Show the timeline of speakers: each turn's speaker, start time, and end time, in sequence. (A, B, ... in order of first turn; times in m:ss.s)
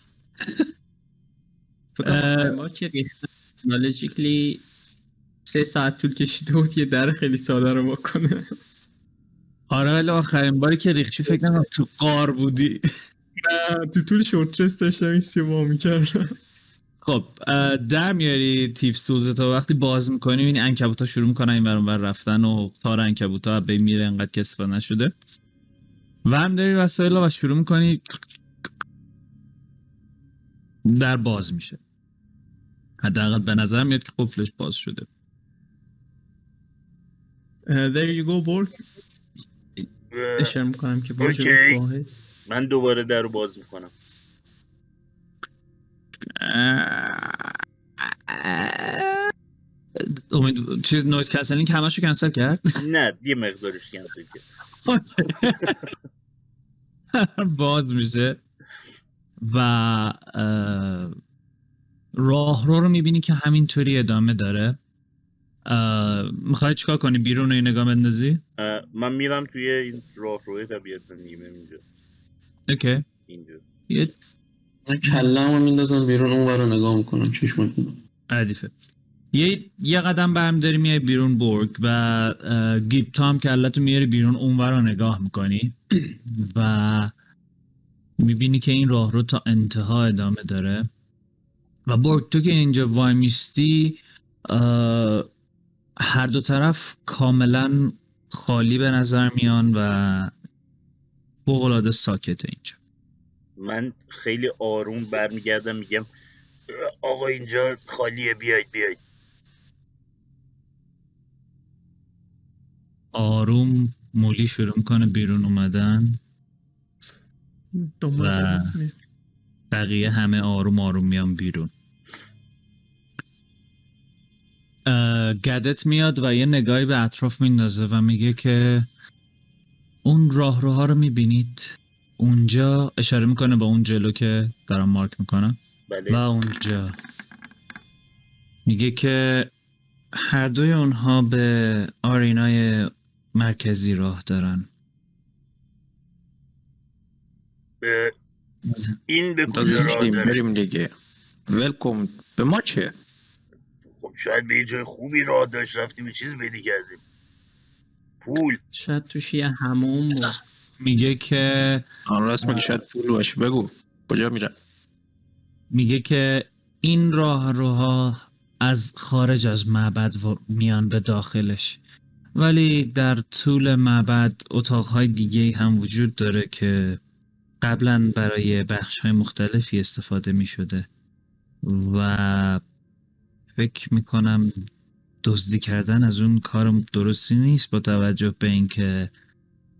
0:02.0-0:03.1 A
0:02.0-0:02.6 B
0:03.6-0:04.6 A
0:05.5-0:08.6 A
0:09.7-0:12.8 B
0:13.4-0:16.3 A
0:17.0-0:25.1 B
0:26.3-0:28.2 B
0:30.9-0:31.8 B
0:33.0-0:35.1 B
0:37.7-0:38.8 A
0:40.1-0:40.5 C
0:40.4-0:42.1 A
0:41.2-0:41.8 C
0:42.5-0:43.9 C
0:46.4-0:49.3 B
0:50.0-0:52.6 B
0:52.8-0:54.4 C
0:54.9-0:55.8 B
0:57.1-0:58.4 B
0:59.4-1:01.2 B
1:02.2-1:04.8 B
1:05.7-1:08.4 B
1:08.6-1:11.8 C
1:12.7-1:13.0 B
1:13.3-1:13.6 C
1:13.9-1:14.1 B
1:14.9-1:18.0 D
1:15.0-1:15.3 B
1:18.3-1:18.7 B
1:19.3-1:27.1 B
1:28.2-1:30.9 B
1:31.9-1:35.3 B
1:36.0-1:40.3 B
1:41.5-1:42.8 B
1:43.6-1:46.1 C
1:46.7-1:49.0 C
1:53.1-1:56.2 B
1:57.8-1:58.9 A
1:58.2-1:58.7 B
1:59.7-2:01.7 B
2:04.9-2:08.9 B
2:10.0-2:15.6 B
2:15.9-2:16.2 C
2:16.1-2:17.0 B
2:18.7-2:19.5 B
2:20.2-2:24.7 B
2:27.8-2:28.1 C
2:28.7-2:29.0 B
2:29.1-2:30.4 C
2:29.5-2:30.9 E
2:31.5-2:32.9 E
2:34.0-2:37.0 C
2:38.2-2:38.6 C
2:38.7-2:40.4 A
2:40.8-2:41.8 B
2:42.1-2:44.6 E
2:45.7-2:51.8 B
2:52.4-2:57.0 B
2:57.6-3:00.9 B
3:01.6-3:02.6 B
3:03.6-3:04.6 B
3:05.2-3:09.1 B